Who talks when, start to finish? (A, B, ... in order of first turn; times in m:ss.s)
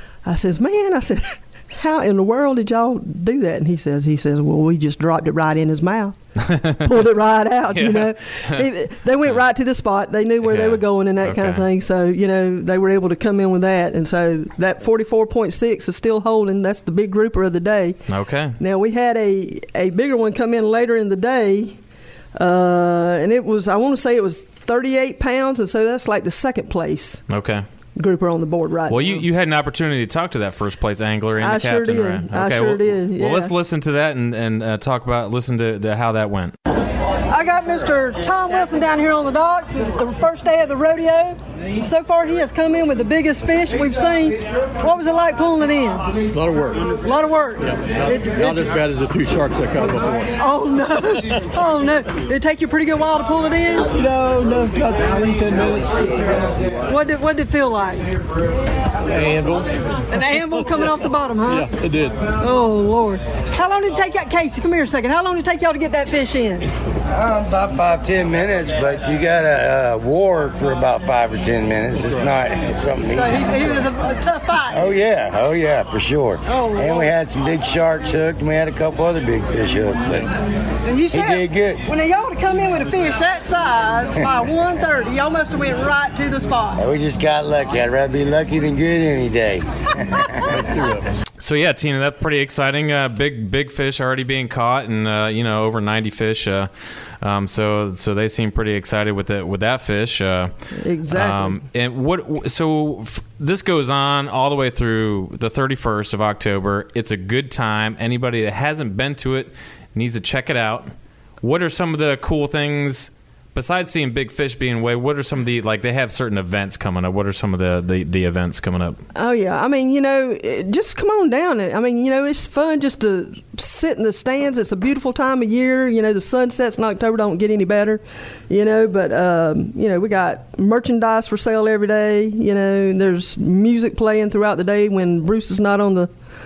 0:00.2-0:18.0 A
0:07.7-0:08.6 B
0:10.4-0:11.6 B
0:18.1-0:18.6 B
0:18.6-0:21.8 A
0:22.4-0:27.2 A
0:27.3-0:27.6 B
0:28.0-0:29.1 A
0:28.9-0:36.6 B
0:31.4-0:33.5 A
0:37.3-0:46.2 A
0:46.3-0:46.9 C
0:46.9-0:48.8 A
0:48.3-0:50.3 C
0:50.4-0:55.1 A
0:54.1-0:56.1 C
0:56.7-0:58.2 A
0:59.1-0:59.9 C
1:00.1-1:01.7 A
1:01.5-1:02.2 C
1:02.3-1:06.7 A
1:07.1-1:13.4 D
1:13.1-1:14.9 A
1:14.7-1:20.3 D
1:16.5-1:17.2 A
1:20.8-1:26.9 A
1:21.1-1:21.8 D
1:26.8-1:30.5 D
1:30.5-1:31.1 C
1:31.4-1:40.5 B
1:40.7-1:41.6 A
1:41.1-1:50.9 B
1:51.4-1:59.0 B
1:59.2-2:16.1 A